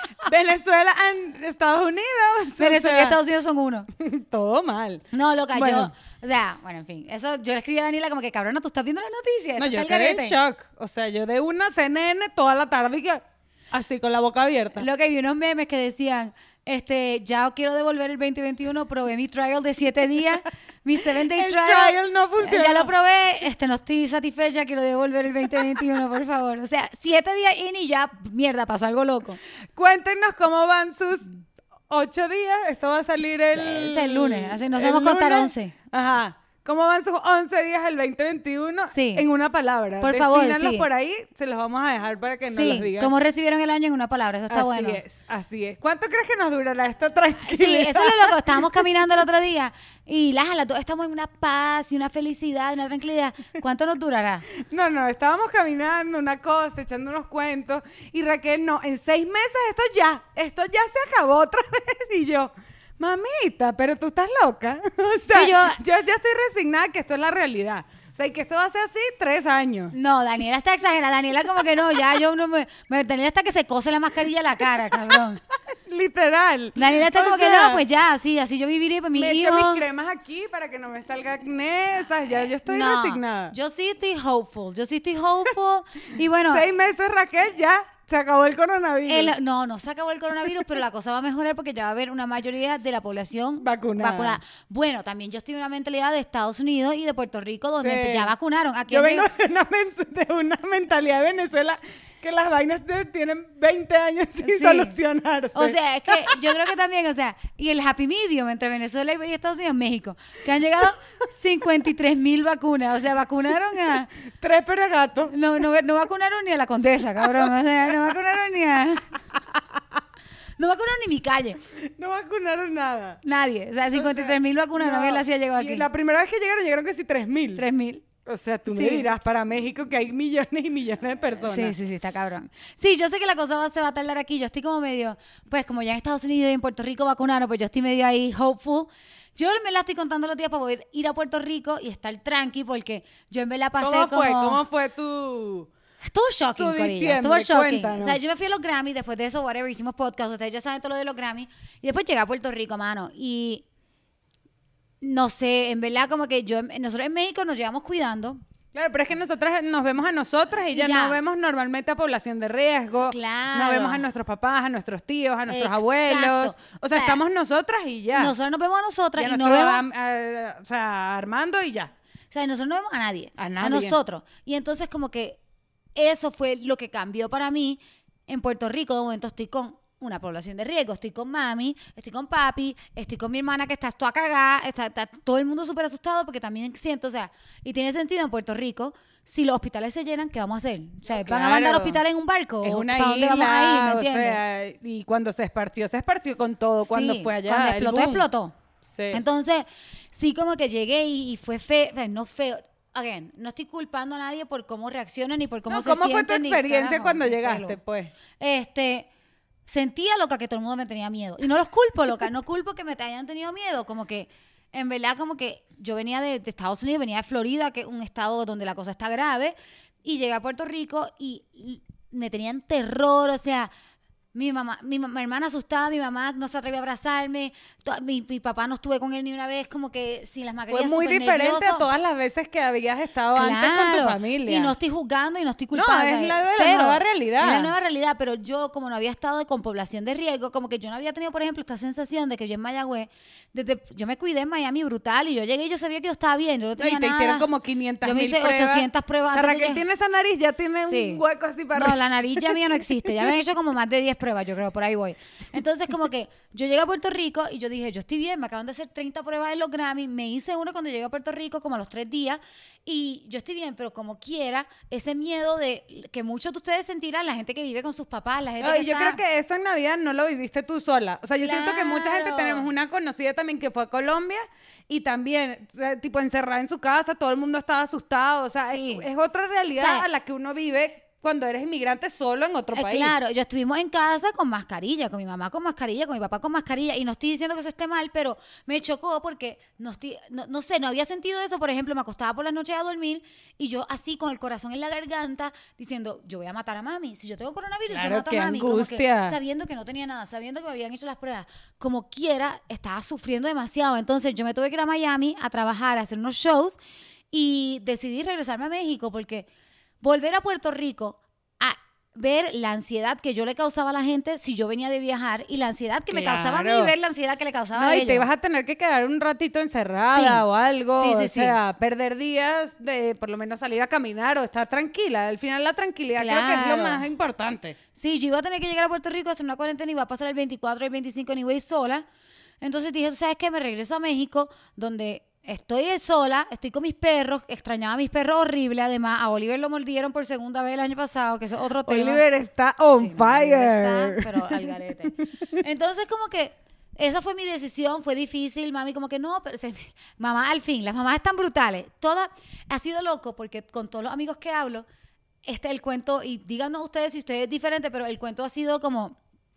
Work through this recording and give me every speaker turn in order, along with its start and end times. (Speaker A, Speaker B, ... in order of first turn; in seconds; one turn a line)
Speaker A: 0.2-3.2
Speaker B: 2.5-3.9
Speaker A: 4.0-5.9
Speaker B: 5.1-10.4
Speaker A: 9.6-14.9
Speaker B: 14.7-29.4
Speaker A: 21.1-22.9
Speaker A: 29.7-31.4
Speaker A: 31.9-43.1
Speaker B: 33.5-35.7
Speaker B: 38.9-39.2
Speaker B: 40.0-40.9
Speaker B: 42.5-45.0
Speaker A: 44.5-48.8
Speaker B: 47.4-54.5
Speaker A: 54.5-69.9
Speaker B: 65.3-65.8
Speaker B: 69.9-75.4
Speaker A: 74.9-75.2
Speaker A: 75.8-77.8
Speaker B: 76.8-79.8
Speaker A: 79.1-83.5
Speaker B: 82.6-86.7
Speaker A: 86.4-89.3
Speaker B: 89.1-99.3
Speaker A: 93.6-94.4
Speaker A: 97.8-98.3
Speaker A: 98.9-106.5
Speaker B: 104.4-105.0
Speaker B: 105.5-114.1
Speaker A: 114.1-115.3
Speaker B: 115.3-119.2
Speaker A: 117.2-118.1
Speaker A: 119.3-119.6
Speaker B: 120.6-121.6
Speaker A: 121.6-123.2
Speaker B: 123.2-125.9
Speaker A: 123.9-127.6
Speaker B: 127.5-128.1
Speaker A: 128.2-131.7
Speaker B: 128.7-129.1
Speaker B: 131.4-144.6
Speaker A: 143.8-145.7
Speaker B: 146.0-153.6
Speaker A: 146.6-148.2
Speaker B: 155.0-158.4
Speaker A: 158.7-168.3
Speaker B: 160.7-161.2
Speaker B: 163.1-164.0
Speaker B: 165.5-167.2
Speaker B: 168.1-169.8
Speaker A: 169.2-171.9
Speaker B: 172.3-175.4
Speaker A: 173.4-174.0
Speaker B: 175.9-194.4
Speaker A: 191.1-192.0
Speaker A: 192.6-198.2
Speaker B: 196.8-198.5
Speaker A: 198.8-199.2
Speaker B: 199.1-207.8
Speaker A: 205.7-208.1
Speaker B: 208.4-209.1
Speaker B: 209.7-223.7
Speaker B: 224.3-231.8
Speaker A: 230.7-234.7
Speaker B: 233.3-247.5
Speaker A: 235.7-237.7
Speaker A: 246.8-252.6
Speaker B: 248.0-249.8
Speaker B: 250.8-251.2
Speaker B: 251.7-269.2
Speaker A: 268.6-283.2
Speaker B: 271.4-272.7
Speaker B: 278.6-279.1
Speaker B: 279.8-280.1
Speaker B: 282.7-306.8
Speaker A: 297.9-299.4
Speaker B: 307.3-309.5
Speaker B: 310.0-318.3
Speaker A: 316.1-316.9
Speaker A: 317.8-327.8
Speaker B: 320.1-320.4
Speaker B: 320.9-321.6
Speaker B: 326.1-327.1
Speaker B: 327.9-332.0
Speaker B: 332.6-342.2
Speaker A: 341.8-344.7
Speaker B: 342.9-354.8
Speaker B: 355.4-359.2